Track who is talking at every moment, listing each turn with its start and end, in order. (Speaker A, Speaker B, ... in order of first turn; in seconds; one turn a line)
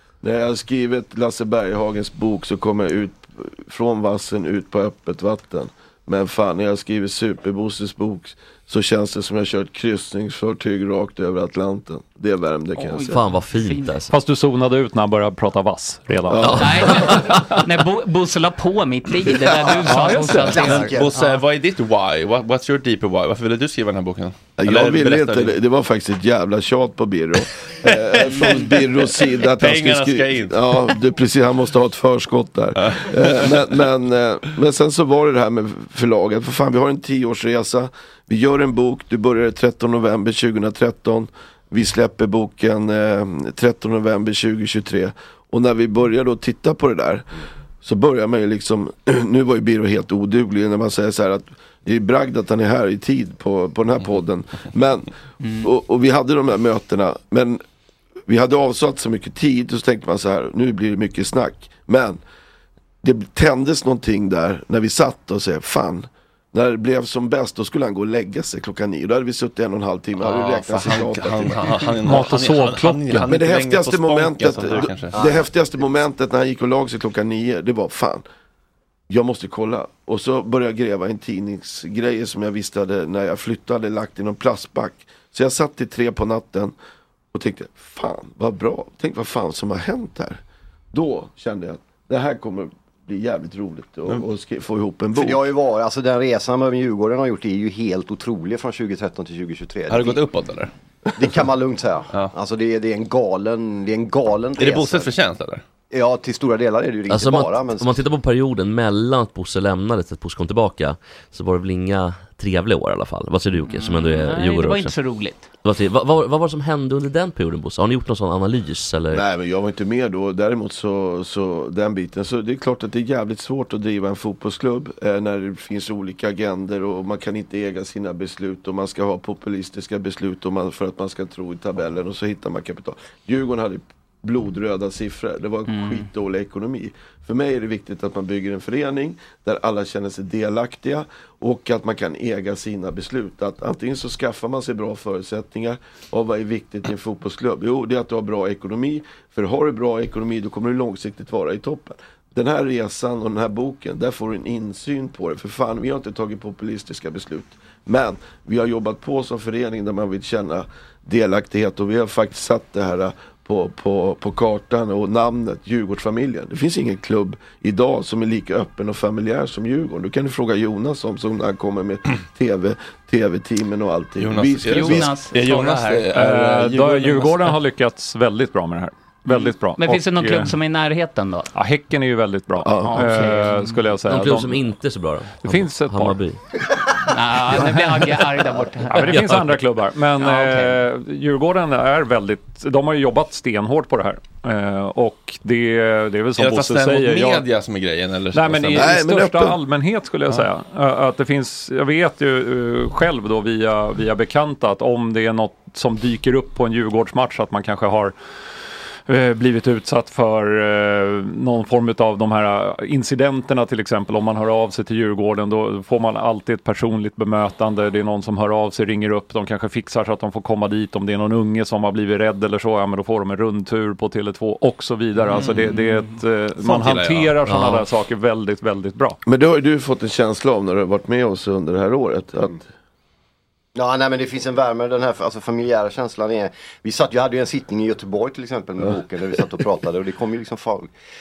Speaker A: 0.2-13.2
Speaker B: 12.8-13.9
Speaker C: 13.1-14.1
Speaker D: 14.1-16.9
Speaker A: 16.3-17.4
Speaker B: 16.6-21.2
Speaker A: 19.2-20.1
Speaker E: 19.6-21.2
Speaker F: 20.0-25.6
Speaker A: 24.6-47.2
Speaker F: 27.8-30.6
Speaker F: 32.9-33.6
Speaker A: 47.8-57.6
Speaker A: 58.3-62.2
Speaker A: 63.0-71.7
Speaker F: 70.2-75.4
Speaker D: 72.0-73.3
Speaker A: 73.2-78.2
Speaker E: 75.1-75.5
Speaker A: 79.1-86.7
Speaker A: 87.3-90.4
Speaker A: 90.9-95.5
Speaker E: 95.1-100.2
Speaker F: 99.9-100.7
Speaker E: 101.2-105.1
Speaker F: 104.6-105.6
Speaker E: 105.9-108.0
Speaker C: 107.1-114.9
Speaker B: 113.7-115.5
Speaker C: 115.6-119.2
Speaker A: 119.1-175.2
Speaker B: 135.7-136.1
Speaker F: 174.2-177.5
Speaker B: 174.7-176.1
Speaker D: 176.1-180.6
Speaker B: 179.8-181.5
Speaker D: 181.5-184.7
Speaker A: 182.6-183.5
Speaker B: 182.8-183.8
Speaker C: 184.1-186.4
Speaker D: 185.4-186.2
Speaker B: 187.1-189.3
Speaker D: 188.9-197.4
Speaker C: 189.1-189.4
Speaker B: 190.2-190.8
Speaker F: 196.4-198.9
Speaker D: 198.3-208.1
Speaker A: 198.7-199.6
Speaker D: 209.1-229.2
Speaker F: 225.3-225.8
Speaker F: 226.6-227.3
Speaker C: 227.4-227.8
Speaker A: 229.2-232.7
Speaker E: 233.7-240.9